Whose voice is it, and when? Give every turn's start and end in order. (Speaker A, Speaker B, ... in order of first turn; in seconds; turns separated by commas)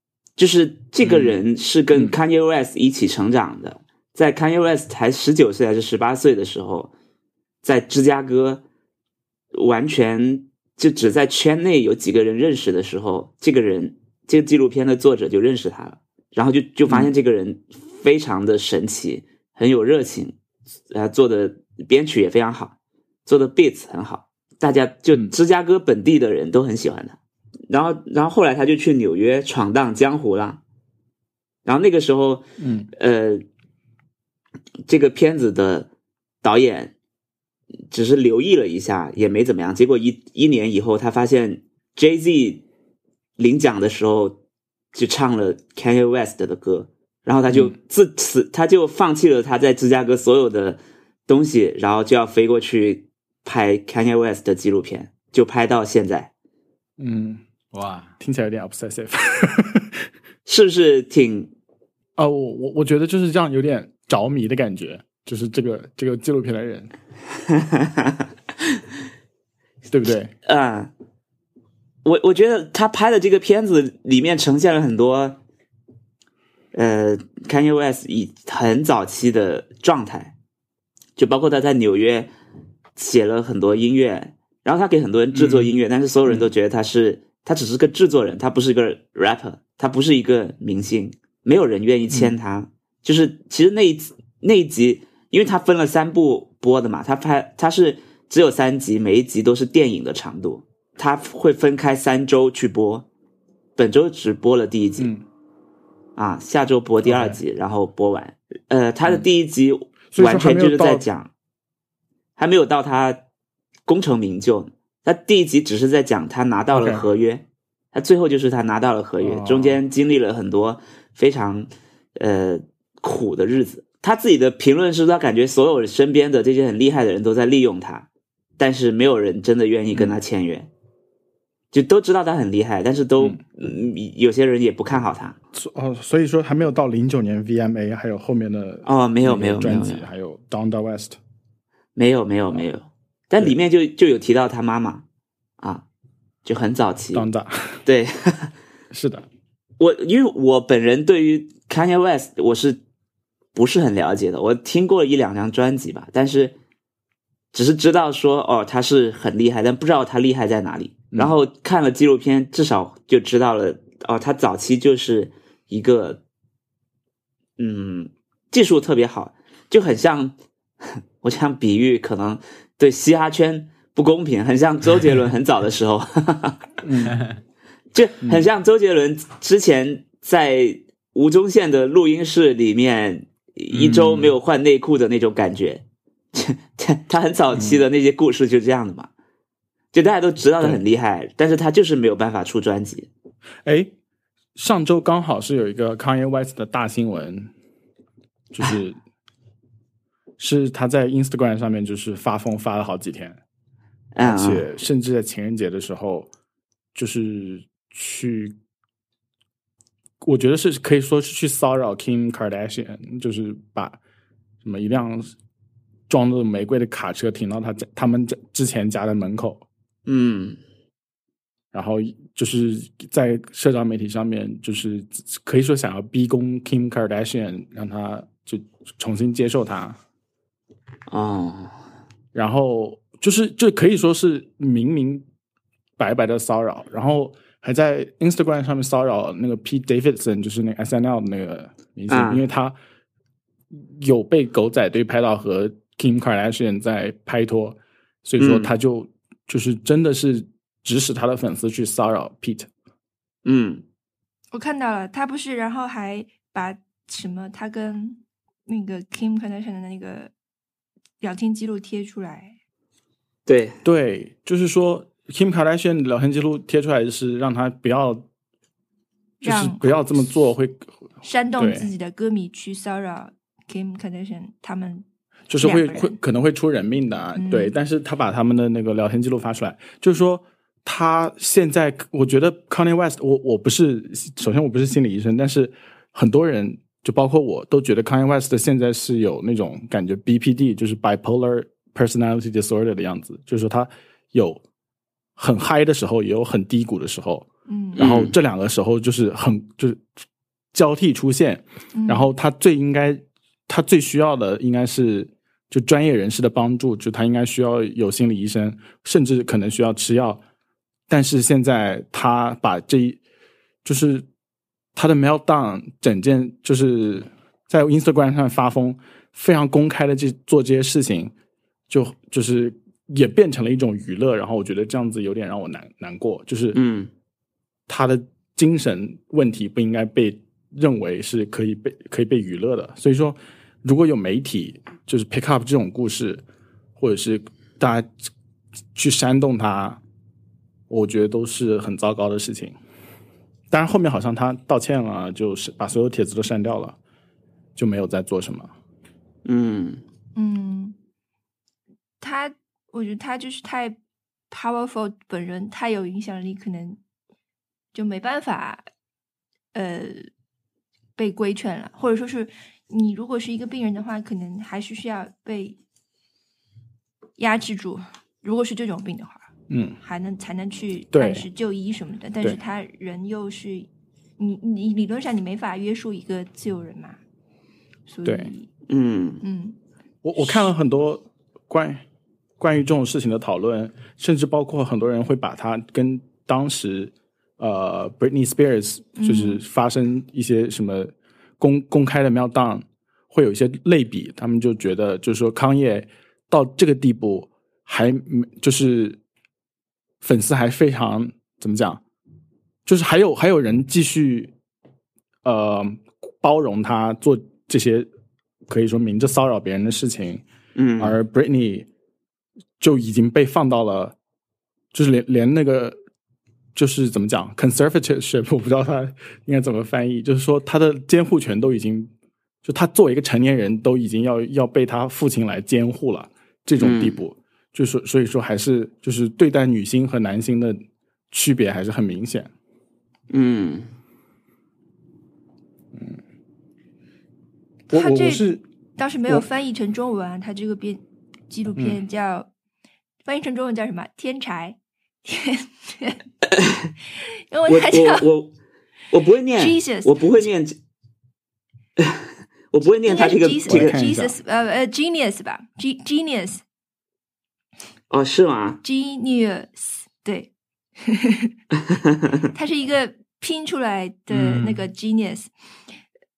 Speaker A: 0.4-6.9, Speaker A: 7.6-8.6, Speaker A: 9.5-20.4, Speaker A: 20.9-22.8, Speaker A: 23.3-27.2, Speaker A: 27.7-30.6, Speaker A: 31.6-32.5, Speaker B: 32.6-32.9, Speaker A: 33.0-33.4, Speaker A: 34.9-35.9, Speaker A: 36.4-36.9, Speaker A: 37.9-42.6, Speaker A: 43.4-44.4, Speaker A: 44.9-56.3, Speaker B: 57.0-57.4, Speaker C: 57.7-58.1, Speaker B: 58.2-60.1, Speaker A: 60.5-61.5, Speaker B: 62.2-66.9, Speaker A: 67.6-68.1, Speaker B: 69.9-70.3, Speaker A: 70.5-70.9, Speaker A: 72.0-75.4, Speaker A: 76.7-80.3, Speaker A: 81.2-82.3, Speaker A: 83.0-103.1, Speaker C: 85.3-85.7, Speaker B: 92.1-92.3, Speaker A: 103.8-105.1, Speaker A: 106.2-111.3, Speaker B: 107.0-107.4, Speaker B: 110.1-111.0, Speaker A: 112.4-113.2, Speaker A: 113.9-128.1, Speaker B: 116.7-117.0, Speaker B: 119.2-119.8, Speaker A: 128.6-130.7, Speaker A: 131.7-135.4, Speaker B: 135.5-141.2, Speaker A: 138.9-140.0, Speaker A: 142.0-145.0, Speaker A: 146.4-147.3, Speaker B: 147.1-147.8, Speaker A: 147.9-148.5, Speaker B: 148.9-149.3, Speaker A: 149.8-152.8, Speaker A: 153.5-156.6, Speaker A: 157.5-166.2, Speaker A: 167.6-176.8, Speaker B: 176.8-177.2, Speaker A: 177.9-189.1, Speaker C: 183.8-184.3, Speaker A: 189.9-193.1, Speaker B: 193.7-193.9, Speaker B: 194.6-197.5, Speaker B: 198.5-199.0, Speaker B: 200.4-203.4, Speaker A: 204.2-204.7, Speaker B: 204.2-206.3, Speaker B: 206.9-208.6, Speaker B: 210.2-214.0, Speaker B: 214.6-215.3, Speaker B: 216.1-219.7, Speaker A: 220.1-220.6, Speaker B: 221.7-230.0, Speaker A: 231.1-231.8, Speaker B: 232.3-235.2, Speaker B: 236.0-242.8, Speaker A: 242.1-242.4, Speaker B: 243.7-252.7, Speaker A: 248.4-248.7, Speaker A: 253.4-253.8, Speaker D: 254.5-260.3, Speaker D: 261.2-262.6, Speaker A: 263.5-263.8, Speaker B: 263.8-268.3, Speaker D: 269.4-269.9, Speaker B: 269.4-270.9, Speaker D: 271.2-275.1, Speaker B: 271.6-271.9, Speaker B: 275.5-294.6, Speaker D: 275.6-276.2, Speaker D: 277.4-277.7, Speaker B: 295.4-300.0, Speaker D: 297.7-298.0, Speaker A: 298.0-298.4, Speaker B: 300.7-310.4, Speaker D: 301.9-302.3, Speaker B: 311.1-313.2, Speaker B: 313.8-314.3, Speaker B: 314.9-321.3, Speaker B: 321.9-326.8, Speaker A: 326.7-327.1, Speaker B: 327.9-336.4, Speaker B: 337.0-338.1, Speaker B: 338.9-340.0, Speaker B: 340.9-342.8, Speaker B: 343.7-347.0, Speaker B: 347.8-348.7, Speaker A: 349.4-350.0, Speaker D: 350.4-350.9, Speaker D: 352.2-354.0, Speaker D: 354.5-357.0, Speaker D: 357.9-358.9, Speaker D: 359.7-360.3, Speaker D: 361.2-365.8, Speaker D: 367.4-369.5, Speaker B: 369.7-370.0, Speaker D: 370.0-373.9, Speaker B: 371.1-371.5, Speaker D: 374.4-377.2, Speaker D: 378.1-378.7, Speaker B: 378.2-378.5, Speaker A: 378.9-379.4, Speaker D: 379.4-379.8, Speaker B: 380.2-382.0, Speaker B: 382.6-399.2, Speaker D: 389.2-389.6, Speaker B: 400.2-402.0, Speaker B: 402.9-404.5, Speaker B: 405.4-408.1, Speaker B: 408.7-410.4, Speaker A: 410.8-411.2, Speaker B: 411.0-411.9, Speaker B: 412.8-414.1, Speaker B: 414.9-416.0, Speaker B: 416.8-422.1, Speaker B: 422.6-432.5, Speaker A: 426.8-427.2, Speaker A: 433.3-433.9, Speaker B: 437.9-438.6, Speaker D: 437.9-442.5, Speaker D: 443.2-446.2, Speaker A: 446.5-446.9, Speaker D: 447.2-448.3, Speaker A: 447.7-448.5, Speaker A: 449.1-450.8, Speaker D: 449.6-450.2, Speaker A: 452.0-454.0, Speaker D: 453.0-456.6, Speaker B: 453.7-454.4, Speaker A: 458.1-458.8, Speaker D: 458.8-461.5, Speaker A: 461.9-462.3, Speaker D: 462.5-465.5, Speaker C: 464.3-464.8